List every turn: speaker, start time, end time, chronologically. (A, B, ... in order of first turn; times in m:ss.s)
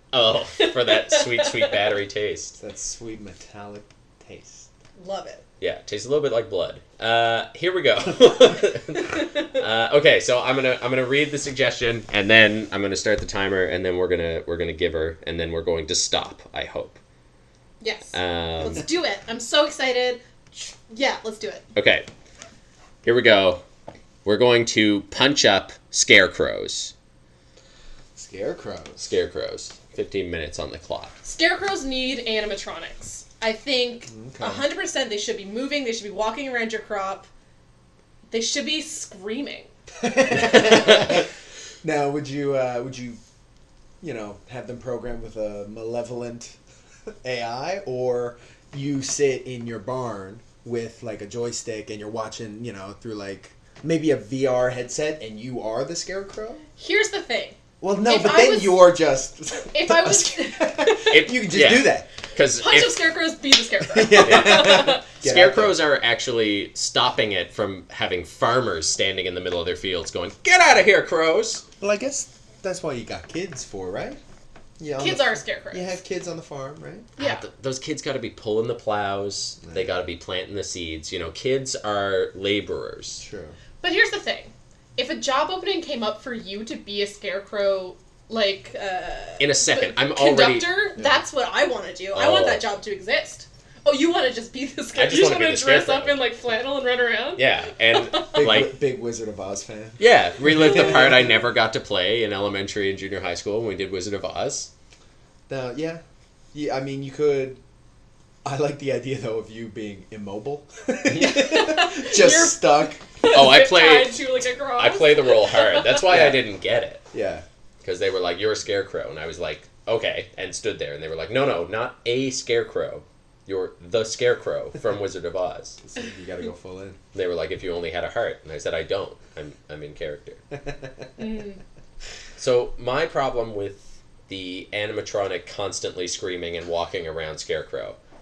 0:00.1-0:02.6 A
0:00.6-0:01.9 B
0:02.6-0:04.7 C
0:05.0-0:05.4 B
0:05.6-0:17.0 A
0:17.8-0:21.7 B
0:18.1-0:18.8 A
0:21.8-0:22.1 A
0:23.0-0:23.6 A
0:24.2-0:26.9 A
0:28.2-0:29.2 C
0:29.0-0:31.1 A
0:31.2-0:37.3 B
0:34.1-0:34.7 C
0:38.3-0:39.7 B
0:40.0-0:41.3 C
0:40.4-0:41.2 A
0:41.8-0:43.2 C
0:44.0-0:46.6 C
0:47.2-0:56.7 C
0:56.8-0:59.0 B
0:57.8-1:02.1 C
0:59.7-1:01.2 B
1:01.1-1:03.2 A
1:02.5-1:05.0 B
1:03.8-1:05.8 C
1:04.1-1:11.6 A
1:11.8-1:14.2 C
1:14.8-1:17.1 C
1:15.0-1:16.0 B
1:17.2-1:17.4 B
1:17.2-1:23.2 A
1:19.6-1:19.9 C
1:23.2-1:23.6 C
1:23.8-1:38.5 B
1:29.4-1:30.8 A
1:30.9-1:31.2 C
1:32.1-1:32.6 A
1:34.9-1:36.2 A
1:37.4-1:38.8 A
1:38.3-1:41.4 C
1:40.0-1:44.7 A
1:45.5-1:47.6 C
1:48.4-1:53.0 C
1:51.1-1:56.3 B
1:53.3-1:57.0 A
1:56.1-1:56.4 C
1:57.1-1:57.4 C
1:57.8-2:05.8 A
2:05.8-2:07.0 C
2:07.1-2:10.4 A
2:10.6-2:11.1 C
2:11.2-2:11.6 B
2:12.4-2:18.0 A